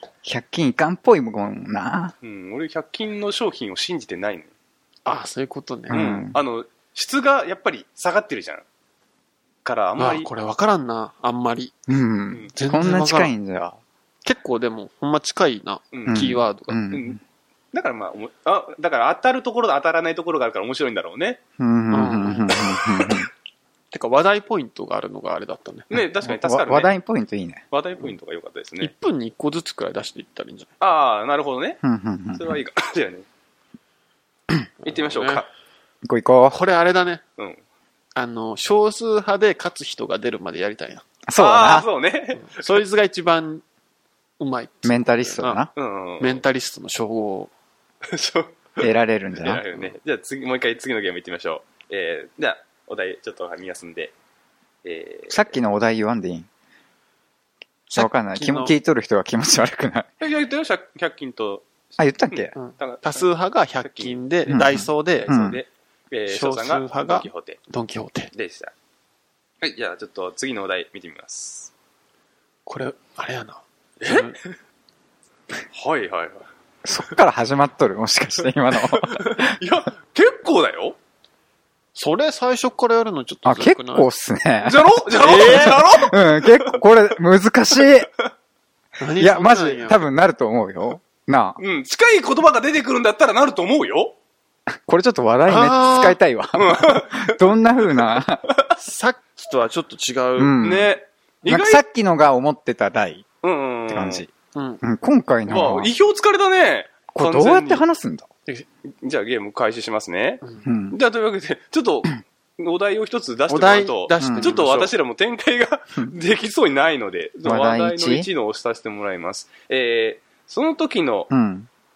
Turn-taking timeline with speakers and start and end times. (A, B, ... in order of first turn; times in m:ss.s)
0:00.2-0:02.1 A
0:02.2-0:04.5 B
0:05.0-0:06.2 C
0:05.9-0:06.4 A
0:05.9-0:08.6 B
0:09.6-0:10.3 B
0:10.0-0:11.8 C
0:11.9-0:13.8 A
0:12.5-0:13.3 C
0:14.2-0:16.8 C
0:15.9-0:16.4 B
0:16.1-0:17.2 A
0:16.9-0:17.2 B
0:17.7-0:21.4 B
0:21.6-0:23.3 A
0:21.9-0:22.6 C
0:23.9-0:25.9 C
0:25.9-0:26.9 B
0:26.2-0:27.6 A
0:27.7-0:28.9 B
0:28.8-0:30.7 C
0:30.8-0:31.8 B
0:31.8-0:32.6 A
0:32.3-0:33.2 B
0:34.8-0:35.4 C
0:34.8-0:35.5 B
0:36.0-0:36.6 A
0:36.5-0:37.2 C
0:37.4-0:37.6 B
0:38.2-0:41.0 C
0:41.3-0:41.9 A
0:41.4-0:42.8 B
0:42.4-0:43.6 C
0:44.4-0:45.6 C
0:44.8-0:45.7 A
0:45.8-0:46.4 B
0:46.2-0:47.5 C
0:48.1-0:54.1 B
0:48.8-0:49.8 A
0:54.8-0:55.5 B
0:55.3-0:56.5 A
0:57.9-0:58.7 C
0:57.9-1:00.1 A
1:00.2-1:03.2 B
1:02.0-1:02.5 A
1:02.5-1:05.3 C
1:03.8-1:04.2 B
1:04.5-1:05.6 A
1:05.2-1:07.6 B
1:06.3-1:08.3 C
1:08.3-1:08.7 B
1:09.6-1:11.7 B
1:12.6-1:14.3 C
1:14.0-1:14.4 B
1:15.7-1:16.4 B
1:16.8-1:19.5 A
1:18.7-1:21.0 B
1:21.9-1:24.1 C
1:23.4-1:28.1 A
1:24.6-1:26.8 B
1:25.2-1:25.8 C
1:29.0-1:30.0 C
1:29.2-1:31.6 A
1:31.6-1:34.1 B
1:34.8-1:38.4 A
1:35.4-1:36.2 C
1:36.5-1:37.4 B
1:38.0-1:38.7 B
1:38.8-1:40.5 C
1:40.4-1:40.9 A
1:40.6-1:41.8 B
1:41.4-1:43.2 A
1:43.4-1:44.2 B
1:43.9-1:44.3 A
1:44.5-1:44.8 C
1:44.8-1:45.9 A
1:45.5-1:47.8 B
1:47.1-1:48.3 A
1:48.9-2:01.3 B
1:50.6-1:51.0 A
1:53.5-1:54.9 C
1:54.2-1:54.6 A
1:57.4-1:58.3 A
2:01.3-2:01.7 A